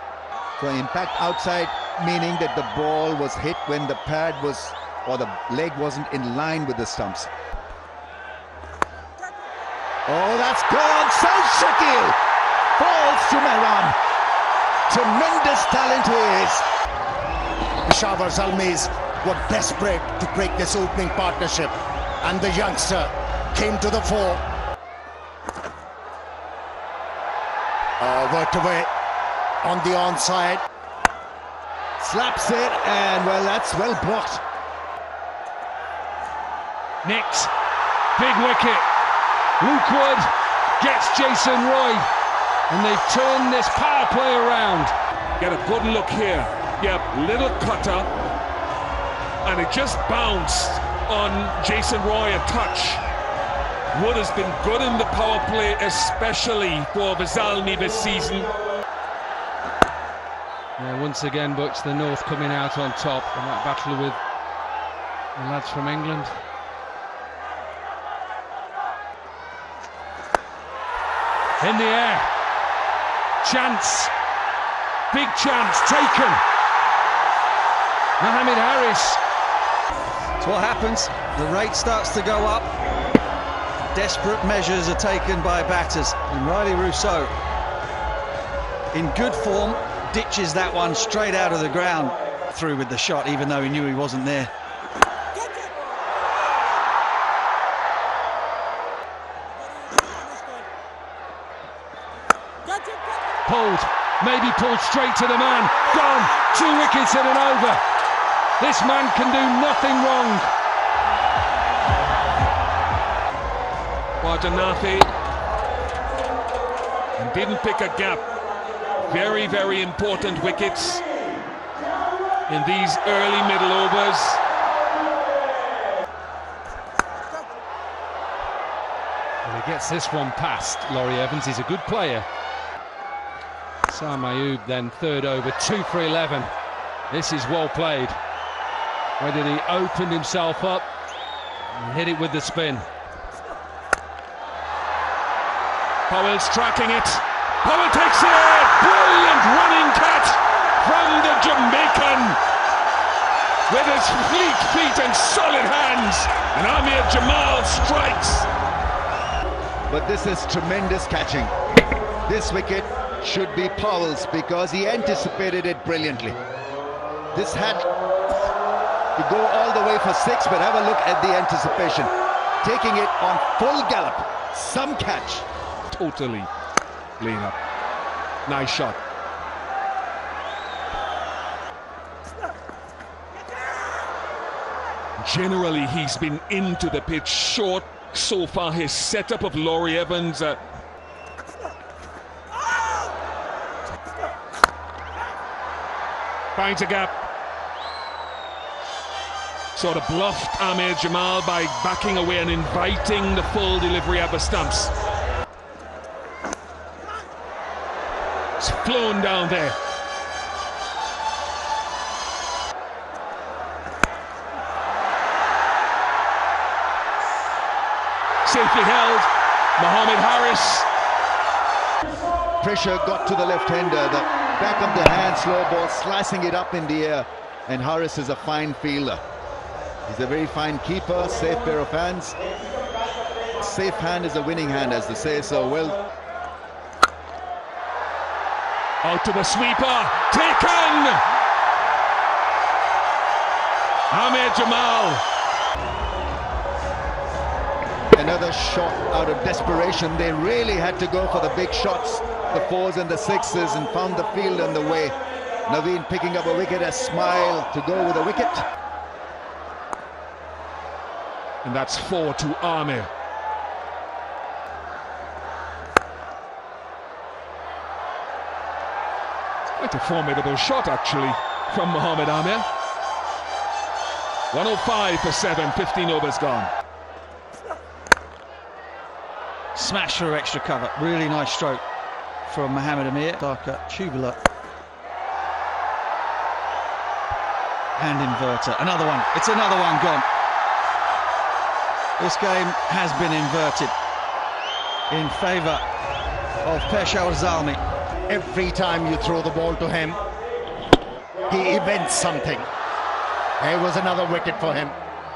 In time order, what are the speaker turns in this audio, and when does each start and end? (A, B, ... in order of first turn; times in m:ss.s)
0:00.6-0:07.3 A
0:10.1-0:12.2 A
0:12.8-0:14.0 A
0:14.9-0:16.6 A
0:17.8-0:24.4 B
0:28.0-0:28.9 B
0:29.6-0:30.6 B
0:32.0-0:34.4 A
0:37.0-0:37.5 C
0:38.2-0:38.8 C
0:39.6-0:40.3 C
0:40.8-0:42.1 C
0:42.7-0:44.9 C
0:45.4-0:48.1 D
0:49.4-0:53.0 D
0:53.9-0:58.5 D
1:00.8-1:04.2 C
1:05.4-1:06.3 C
1:11.6-1:12.3 C
1:13.4-1:14.1 C
1:15.1-1:16.4 C
1:18.2-1:19.2 C
1:20.4-1:22.7 E
1:23.9-1:27.3 E
1:28.9-1:34.5 E
1:43.4-1:47.8 C
1:48.6-1:50.5 C
1:54.2-1:55.1 D
1:57.2-1:58.2 D
1:59.0-2:01.0 D
2:02.5-2:04.4 D
2:09.4-2:12.2 C
2:13.9-2:16.5 C
2:17.1-2:18.2 C
2:19.2-2:20.8 C
2:21.7-2:22.8 C
2:26.1-2:32.4 D
2:33.7-2:38.5 D
2:39.9-2:41.5 A
2:42.2-2:46.4 A
2:47.3-2:47.9 A
2:49.2-2:55.4 A
2:55.9-2:56.5 D
2:57.2-2:57.6 D
2:58.4-2:59.0 D
3:05.2-3:10.6 D
3:16.6-3:17.1 D
3:19.7-3:24.9 D
3:28.6-3:29.8 D
3:38.4-3:40.8 D
3:42.6-3:49.2 A
3:50.1-3:52.4 A
3:53.6-3:56.0 A
3:59.0-4:01.2 D
4:04.1-4:05.2 D
4:08.1-4:15.1 A
4:15.6-4:18.6 A
4:21.6-4:23.1 D
4:29.8-4:32.6 D
4:34.5-4:36.7 D
4:39.7-4:41.8 E
4:42.5-4:44.4 E
4:48.0-4:50.2 E
4:52.2-4:53.9 E
4:55.1-4:55.8 E
4:56.6-4:57.8 E
4:58.3-5:00.2 B
5:01.5-5:02.7 B
5:03.6-5:05.0 B